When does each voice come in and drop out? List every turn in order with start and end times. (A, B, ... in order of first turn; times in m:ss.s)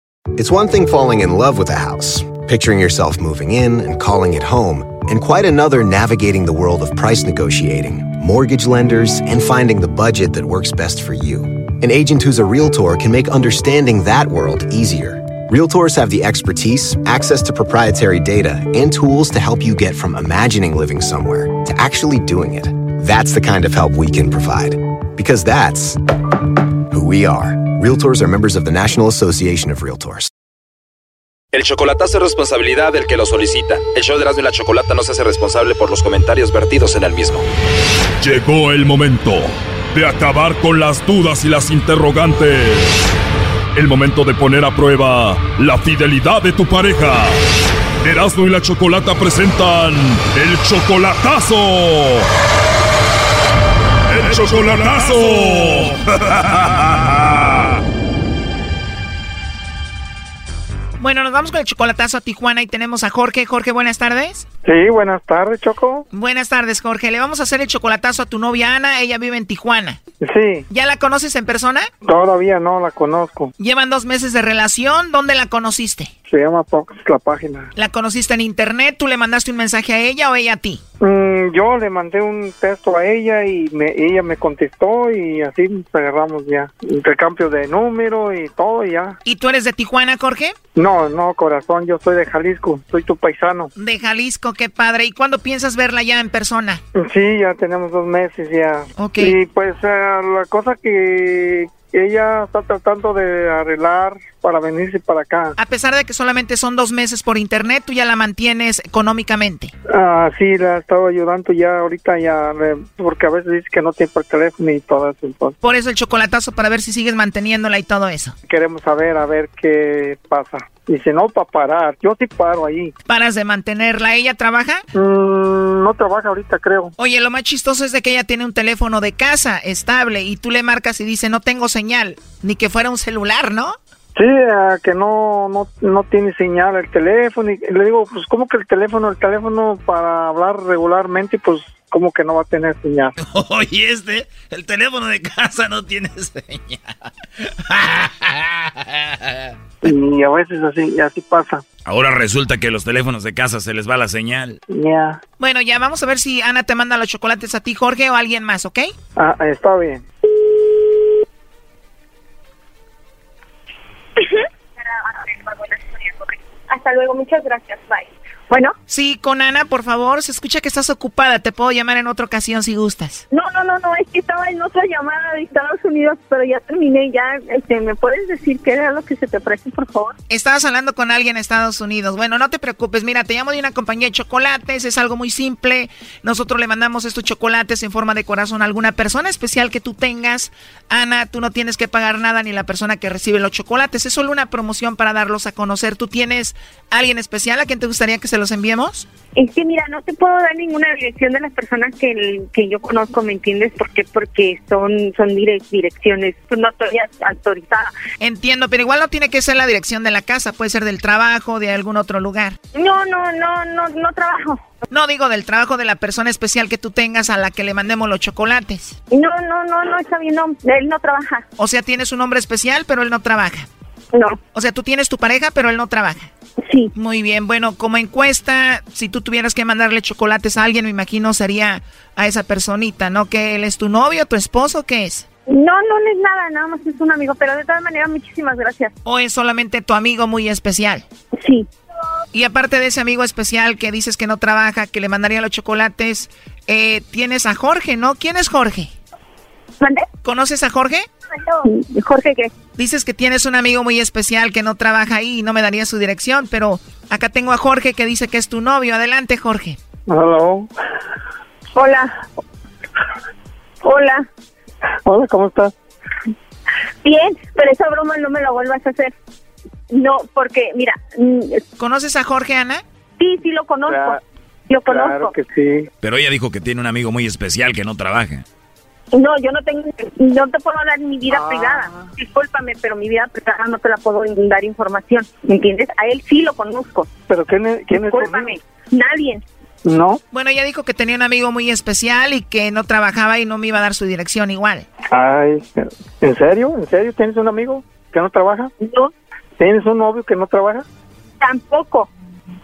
0:00.3-0:26.0 A
0:26.9-0:30.3 A
0:31.5-0:37.4 B
0:38.2-0:43.1 C
0:43.7-0:47.4 C
0:48.0-0:52.3 C
0:54.1-0:55.9 C
1:01.0-1:04.4 D
1:04.6-1:06.1 E
1:06.1-1:10.0 D
1:10.2-1:10.7 E
1:10.7-1:11.9 D
1:12.0-1:13.5 E
1:13.6-1:16.1 D
1:16.3-1:17.7 E
1:17.8-1:20.8 D
1:21.0-1:29.2 E
1:29.2-1:30.5 D
1:30.7-1:33.7 E
1:33.8-1:36.8 D
1:36.9-1:45.5 E
1:39.0-1:39.4 D
1:45.6-1:49.7 D
1:49.9-1:55.6 E
1:55.6-1:58.3 D
1:58.5-2:02.9 E
2:03.0-2:04.8 D
2:04.9-2:06.9 E
2:07.0-2:13.7 D
2:14.1-2:23.1 E
2:23.2-2:29.5 F
2:29.8-2:31.6 E
2:31.8-2:34.6 F
2:34.7-2:35.2 E
2:35.4-2:38.9 D
2:39.2-2:40.0 E
2:44.2-2:48.7 G
2:48.9-2:53.2 D
2:53.3-3:00.1 G
3:00.3-3:19.1 D
3:19.3-3:27.9 G
3:28.2-3:32.6 D
3:32.7-3:34.6 G
3:34.9-3:39.0 D
3:39.1-3:41.4 G
3:41.6-3:43.7 D
3:44.1-3:44.4 G
3:44.5-3:46.3 D
3:46.6-3:46.9 G
3:46.9-3:55.2 D
3:55.5-3:58.9 G
3:59.0-4:01.0 D
4:01.4-4:01.7 G
4:02.3-4:08.9 D
4:09.8-4:10.0 G
4:10.2-4:11.1 D
4:11.4-4:12.5 G
4:12.8-4:19.8 D
4:20.1-4:20.7 E
4:21.7-4:22.1 G
4:23.8-4:24.2 G
4:25.0-4:25.7 E
4:27.0-4:29.1 G
4:29.9-4:31.6 G
4:31.8-4:32.8 D
4:33.2-4:35.3 G
4:33.8-4:34.2 E
4:34.9-4:35.9 E
4:36.0-4:38.4 F
4:39.1-4:47.1 G
4:41.3-4:42.1 E
4:47.3-4:48.5 E
4:47.9-4:49.4 G
4:49.8-4:50.2 E
4:50.3-4:54.8 D
4:55.1-4:58.7 E
4:58.8-4:59.1 G
4:59.6-5:00.8 E
5:01.4-5:02.1 G